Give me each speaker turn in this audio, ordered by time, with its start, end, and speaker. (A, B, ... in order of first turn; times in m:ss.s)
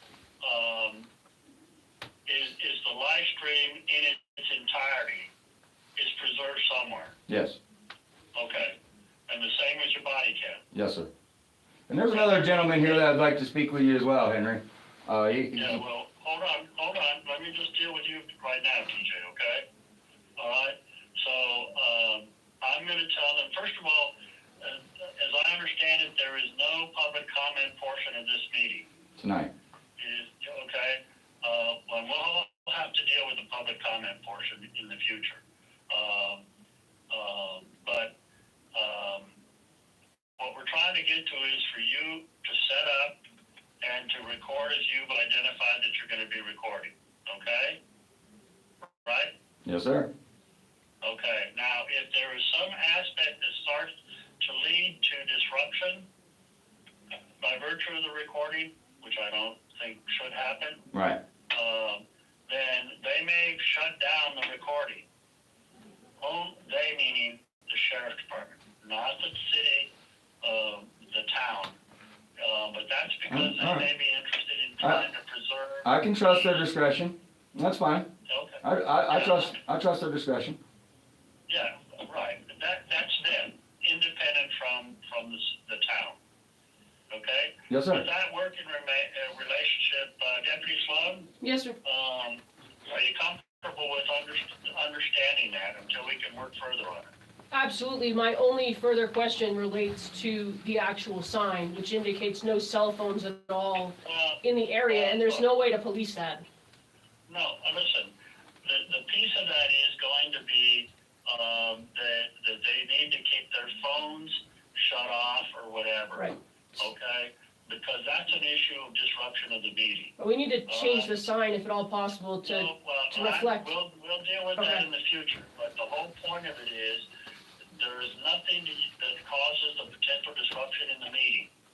0:00.4-0:01.1 A
0:02.3-0:05.3 A
0:06.0-0:07.2 A
0:07.3-0:07.6 B
0:08.4-0:08.8 A
0:09.3-0:10.6 A
0:10.7-0:11.1 B
0:11.9-0:15.8 B
0:12.1-0:13.1 A
0:15.6-0:19.7 A
0:20.4-0:28.9 A
0:29.2-0:29.5 B
0:30.0-0:36.4 A
0:37.1-0:38.1 A
0:38.8-0:39.4 A
0:40.4-0:43.2 A
0:43.8-0:47.8 A
0:49.0-0:49.3 A
0:49.6-0:50.1 B
0:51.0-0:56.1 A
0:57.4-1:00.9 A
1:00.9-1:01.2 B
1:01.5-1:05.1 A
1:06.2-1:09.9 A
1:10.4-1:11.8 A
1:12.4-1:16.6 A
1:13.3-1:13.9 B
1:15.8-1:18.1 B
1:18.3-1:19.6 A
1:18.6-1:20.6 B
1:21.5-1:26.2 A
1:27.1-1:31.3 A
1:27.7-1:28.0 B
1:31.4-1:31.8 C
1:31.8-1:37.1 A
1:37.5-1:46.4 C
1:44.0-1:45.5 A
1:47.3-2:00.1 A
2:00.2-2:03.7 C
2:00.7-2:01.2 A
2:02.4-2:07.1 A
2:04.6-2:04.8 C
2:07.8-2:11.5 A